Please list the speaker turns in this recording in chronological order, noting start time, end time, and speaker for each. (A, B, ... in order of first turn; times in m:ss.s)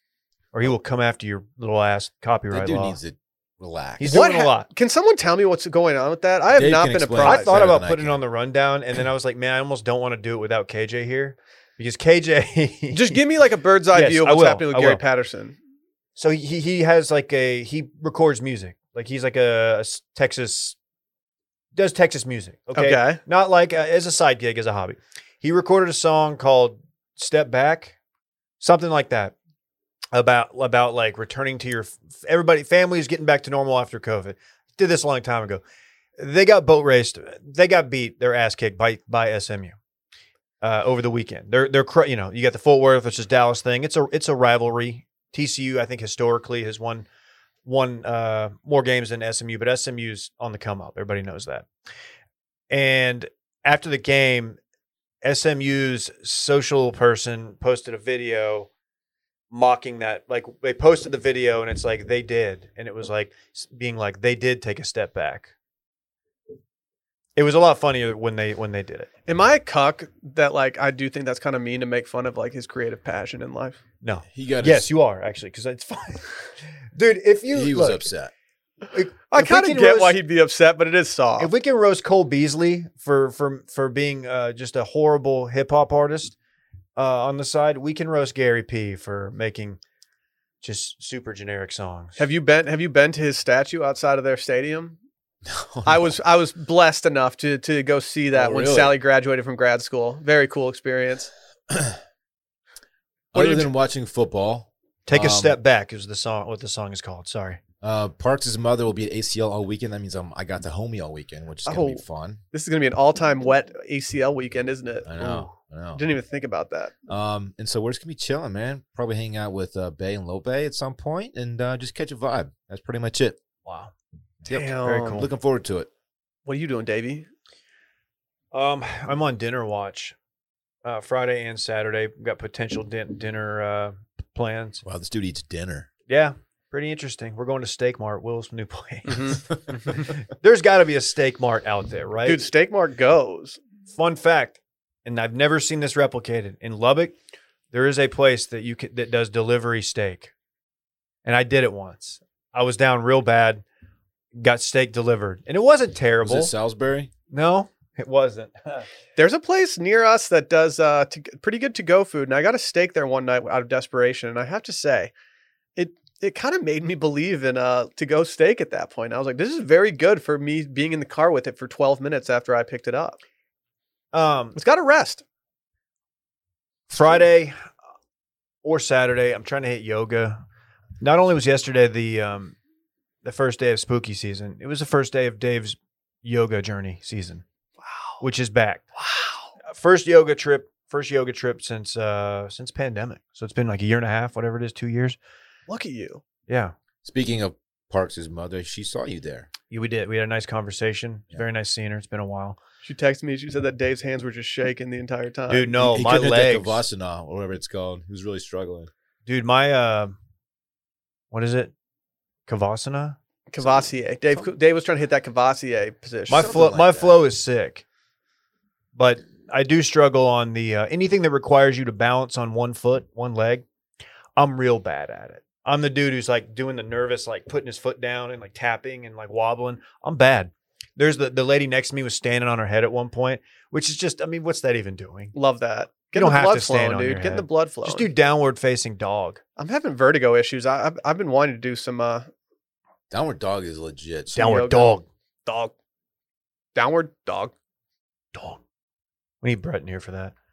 0:00.5-0:03.0 A
0:02.5-0:04.2 B
0:04.0-0:04.7 A
0:04.1-0:07.5 C
0:06.5-0:08.2 B
0:07.2-0:13.2 A
0:12.9-0:15.6 C
0:13.9-0:15.0 A
0:16.2-0:20.8 A
0:21.7-0:28.0 A
0:22.7-0:23.2 C
0:28.6-0:29.3 A
0:30.1-0:35.6 A
0:36.2-0:39.8 A
0:40.6-0:47.0 A
0:47.6-0:51.7 A
0:52.7-0:54.6 A
0:55.2-0:58.7 A
0:59.5-1:05.5 A
1:07.4-1:09.1 A
1:09.2-1:13.8 C
1:14.0-1:16.3 A
1:14.3-1:14.9 B
1:16.9-1:18.1 A
1:17.5-1:18.3 B
1:18.9-1:20.2 A
1:19.3-1:21.5 C
1:21.4-1:26.3 A
1:27.0-1:29.8 A
1:30.6-1:32.2 A
1:32.2-1:35.0 C
1:35.4-1:36.1 B
1:35.8-1:41.3 C
1:38.3-1:38.9 B
1:41.7-1:42.0 B
1:43.3-1:43.7 C
1:43.3-1:45.6 B
1:45.1-1:47.6 A
1:47.8-1:52.4 B
1:51.6-1:52.0 C
1:52.5-1:55.2 C
1:55.0-1:56.0 B
1:55.2-1:55.5 A
1:56.0-1:56.9 C
1:57.1-2:03.4 B
2:03.6-2:03.9 A
2:04.5-2:05.3 C
2:04.5-2:05.9 B
2:04.8-2:05.3 A
2:06.4-2:07.3 C
2:08.5-2:10.2 A
2:10.8-2:14.8 A
2:14.8-2:15.9 B
2:16.1-2:22.4 A
2:19.1-2:19.4 C
2:22.2-2:23.6 C
2:23.9-2:27.1 A
2:27.7-2:30.3 A
2:31.2-2:33.6 A
2:34.3-2:36.5 A
2:36.2-2:37.1 B
2:37.3-2:38.9 A
2:39.2-2:45.1 C
2:45.8-2:53.2 C
2:54.1-2:54.6 A
2:54.5-2:55.2 C
2:56.9-2:57.6 A
2:58.6-3:00.4 A
3:01.0-3:02.6 A
3:03.2-3:07.4 A
3:07.8-3:08.2 C
3:08.2-3:08.8 A
3:09.0-3:09.5 C
3:09.7-3:15.2 A
3:15.7-3:16.2 C
3:16.5-3:16.7 A
3:17.0-3:19.5 B
3:19.7-3:22.6 A
3:22.8-3:25.7 C
3:25.5-3:26.8 A
3:25.8-3:28.9 B
3:29.2-3:30.1 A
3:31.3-3:31.7 A
3:32.5-3:33.2 A
3:33.5-3:36.5 C
3:33.6-3:34.5 B
3:36.3-3:37.8 A
3:36.3-3:37.2 B
3:38.9-3:43.6 A
3:44.4-3:55.3 A
3:55.3-3:58.1 C
3:56.1-3:59.4 A
3:59.6-4:02.3 C
4:03.1-4:04.4 B
4:04.3-4:05.0 A
4:04.4-4:05.7 C
4:06.8-4:07.5 C
4:09.4-4:10.3 A